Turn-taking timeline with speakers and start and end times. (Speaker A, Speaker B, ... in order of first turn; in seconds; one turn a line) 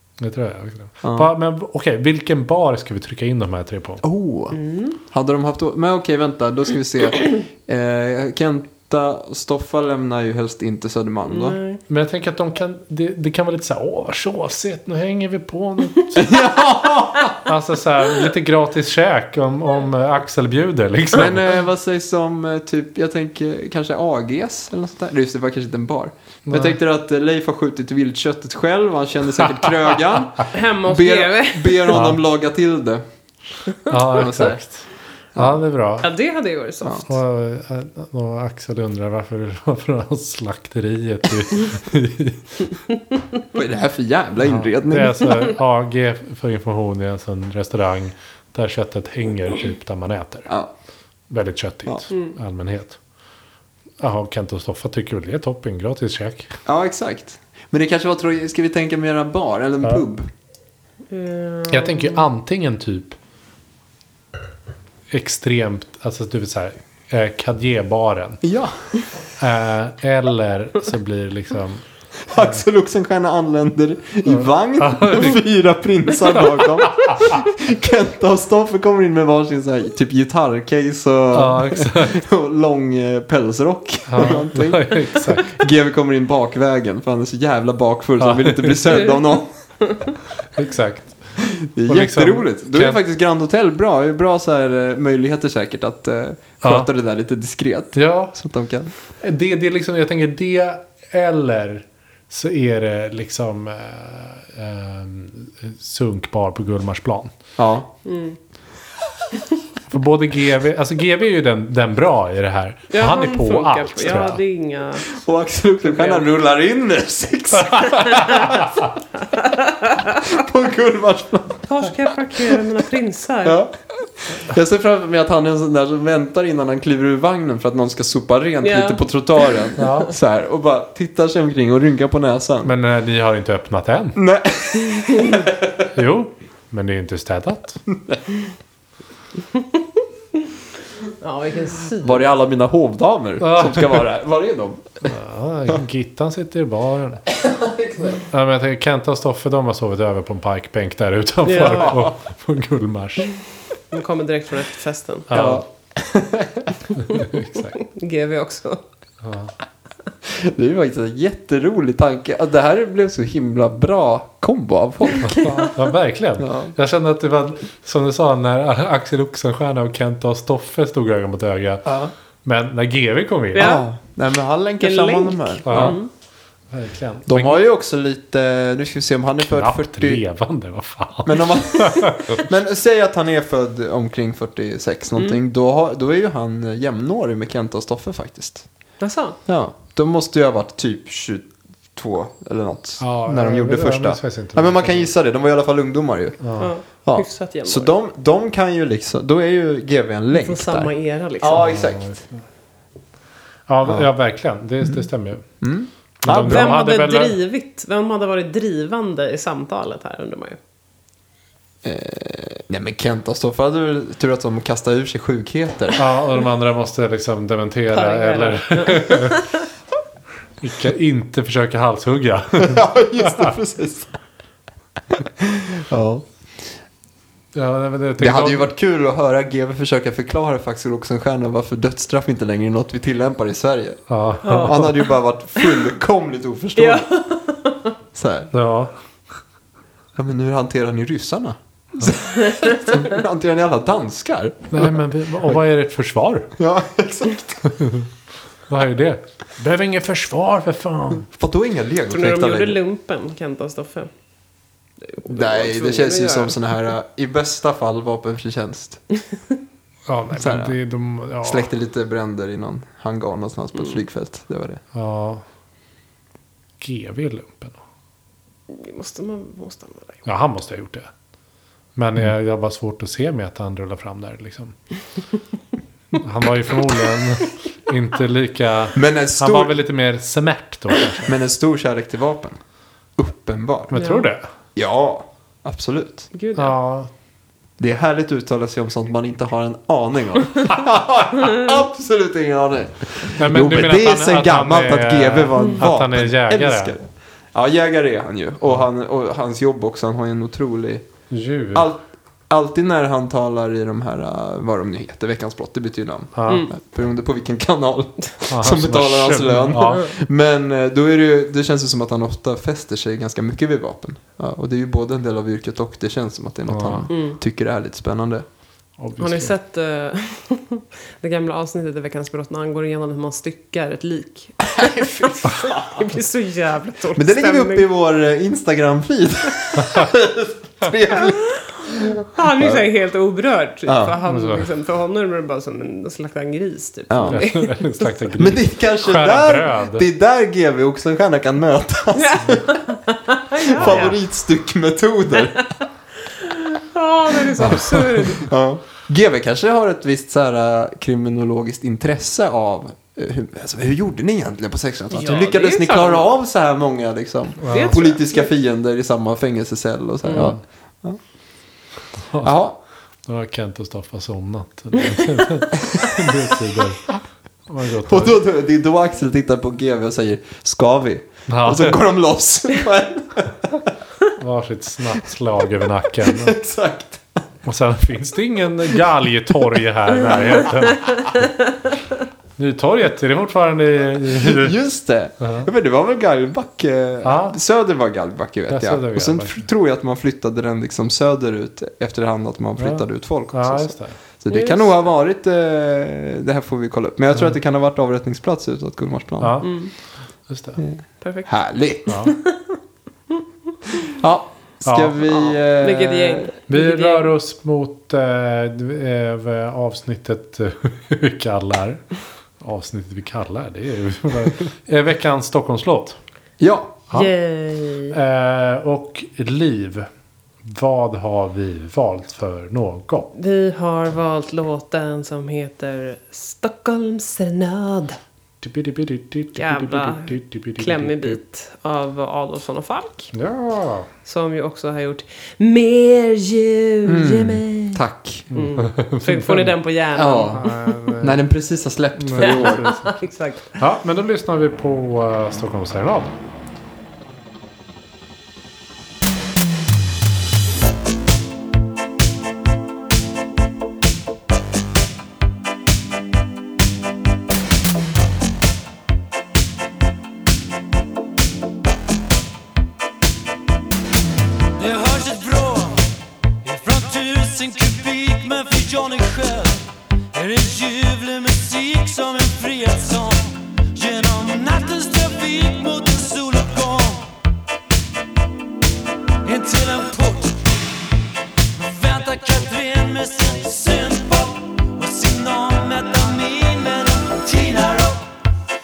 Speaker A: 0.2-4.0
Speaker B: 1.0-1.3
Speaker B: 4.0-11.6
Speaker C: 4.5-5.0
Speaker C: 11.3-11.8
Speaker A: 11.9-16.3
Speaker B: 16.1-17.4
Speaker A: 17.4-21.5
Speaker B: 21.1-33.0
Speaker A: 26.5-26.8
Speaker C: 30.5-32.0
Speaker A: 31.9-32.2
Speaker A: 33.9-36.1
Speaker B: 34.1-34.6
Speaker C: 36.0-37.1
Speaker A: 37.0-42.5
Speaker B: 43.5-45.5
Speaker A: 44.4-50.5
Speaker A: 51.3-53.0
Speaker A: 54.0-56.5
Speaker B: 56.6-60.3
Speaker C: 61.1-62.2
Speaker A: 61.7-63.2
Speaker A: 65.1-68.4
Speaker B: 68.4-68.8
Speaker A: 69.4-72.5
Speaker B: 72.3-89.5
Speaker A: 74.2-75.4
Speaker A: 76.8-77.4
Speaker A: 81.3-82.2
Speaker A: 84.1-85.6
Speaker A: 88.2-89.0
Speaker A: 90.5-93.0
Speaker B: 91.4-98.9
Speaker A: 96.6-96.9
Speaker A: 97.9-98.3
Speaker A: 99.2-107.3
Speaker B: 107.6-107.9
Speaker C: 108.0-108.4
Speaker A: 109.9-114.4
Speaker C: 112.9-115.2
Speaker B: 115.1-118.7
Speaker C: 115.9-116.2
Speaker A: 117.7-118.7
Speaker C: 118.1-118.5
Speaker C: 119.3-120.2
Speaker B: 120.2-121.9
Speaker C: 121.7-123.6
Speaker B: 123.4-132.7
Speaker C: 128.6-129.7
Speaker A: 129.8-130.1
Speaker A: 132.6-134.2
Speaker B: 134.2-135.9
Speaker A: 135.9-137.8
Speaker B: 137.9-138.2
Speaker C: 141.2-142.3
Speaker B: 142.0-145.0
Speaker A: 143.4-144.0
Speaker A: 145.0-147.2
Speaker B: 147.3-148.2
Speaker A: 148.3-153.3
Speaker C: 151.4-152.0
Speaker C: 153.9-155.3
Speaker A: 155.3-155.6
Speaker B: 155.3-156.8
Speaker A: 157.0-157.8
Speaker C: 157.7-158.8
Speaker A: 159.2-159.5
Speaker B: 160.2-165.6
Speaker A: 165.2-173.7
Speaker B: 166.4-166.7
Speaker B: 171.8-172.1
Speaker C: 173.5-173.8
Speaker B: 173.6-176.0
Speaker C: 174.8-176.1
Speaker A: 175.7-176.0
Speaker A: 176.7-177.6
Speaker B: 177.3-180.2
Speaker A: 179.5-182.4
Speaker B: 181.2-188.7
Speaker C: 189.0-189.4
Speaker B: 189.5-202.2
Speaker A: 193.0-195.1
Speaker A: 196.4-196.7
Speaker C: 196.6-197.9
Speaker C: 200.3-201.7
Speaker A: 201.6-202.3
Speaker A: 203.7-205.5
Speaker B: 205.6-206.7
Speaker A: 206.2-207.4
Speaker C: 206.4-210.6
Speaker B: 211.8-216.0
Speaker A: 216.0-219.5
Speaker C: 217.9-219.6
Speaker A: 220.6-223.5
Speaker B: 222.5-224.1
Speaker B: 225.2-226.2
Speaker A: 227.5-228.7
Speaker B: 228.2-237.1
Speaker A: 234.1-234.9
Speaker C: 234.4-235.9
Speaker C: 236.8-237.9
Speaker B: 238.1-238.5
Speaker A: 238.5-238.9
Speaker B: 240.1-244.9
Speaker A: 244.7-246.5
Speaker B: 246.6-247.6
Speaker A: 247.7-248.1
Speaker A: 248.7-251.3
Speaker B: 251.3-252.8
Speaker C: 252.1-254.1
Speaker C: 255.1-256.6
Speaker B: 255.3-259.0
Speaker A: 260.1-261.7
Speaker B: 260.4-260.8
Speaker B: 261.4-264.8
Speaker A: 264.9-265.4
Speaker A: 266.8-267.8
Speaker C: 268.7-270.2
Speaker A: 270.2-271.1
Speaker A: 272.0-274.8
Speaker A: 276.1-281.4
Speaker B: 278.9-279.8
Speaker B: 281.2-282.6
Speaker B: 283.1-283.9
Speaker A: 283.9-284.5
Speaker C: 283.9-284.3
Speaker B: 284.8-286.3
Speaker C: 286.3-286.8
Speaker A: 286.6-287.1
Speaker B: 287.8-301.1
Speaker A: 293.3-296.9
Speaker A: 301.3-301.9
Speaker B: 301.7-318.4
Speaker A: 306.4-306.7
Speaker A: 308.5-310.1
Speaker A: 316.7-317.1
Speaker C: 317.1-317.4
Speaker A: 319.0-319.5
Speaker C: 319.2-327.9
Speaker B: 324.7-326.1
Speaker B: 327.1-331.4
Speaker C: 331.1-338.2
Speaker B: 332.6-332.9
Speaker B: 333.9-334.2
Speaker A: 334.2-334.7
Speaker B: 337.1-337.4
Speaker A: 337.3-340.0
Speaker B: 338.4-342.8
Speaker C: 342.1-344.1
Speaker B: 343.6-345.7
Speaker A: 343.8-344.1
Speaker C: 345.4-345.6
Speaker C: 346.2-348.5
Speaker B: 347.6-361.2
Speaker C: 355.1-356.3
Speaker A: 357.6-358.0
Speaker C: 357.7-358.5
Speaker C: 360.3-360.5
Speaker A: 360.3-360.6
Speaker A: 362.3-362.6
Speaker B: 362.4-362.8
Speaker A: 363.2-367.1
Speaker A: 367.7-368.4
Speaker B: 368.1-373.9
Speaker A: 371.5-372.0
Speaker A: 374.4-376.6
Speaker B: 376.2-377.4
Speaker A: 377.6-381.1
Speaker B: 380.1-381.4
Speaker A: 382.6-384.8
Speaker B: 384.2-399.6
Speaker A: 385.4-385.7
Speaker A: 387.2-387.6
Speaker A: 388.7-389.7
Speaker A: 392.8-394.2
Speaker C: 394.5-395.0
Speaker A: 399.4-399.7
Speaker C: 399.6-399.9
Speaker A: 400.5-400.8
Speaker B: 400.8-402.1
Speaker C: 401.2-402.7
Speaker A: 402.1-402.4
Speaker B: 404.1-406.5
Speaker A: 404.8-405.2
Speaker C: 405.2-407.3
Speaker A: 406.7-416.2
Speaker B: 416.6-417.0
Speaker C: 417.1-418.1
Speaker A: 418.1-420.1
Speaker A: 420.6-423.3
Speaker C: 423.4-428.2
Speaker A: 428.6-431.4
Speaker C: 429.6-433.3
Speaker A: 433.3-434.1
Speaker C: 434.2-440.8
Speaker B: 437.1-438.5
Speaker A: 438.5-439.8
Speaker B: 440.1-440.6
Speaker A: 440.4-441.4
Speaker B: 441.2-442.9
Speaker A: 442.1-443.1
Speaker C: 442.4-443.8
Speaker A: 443.8-446.3
Speaker D: 464.8-466.1
Speaker D: 466.6-477.3
Speaker D: 479.4-480.7
Speaker D: 481.8-488.3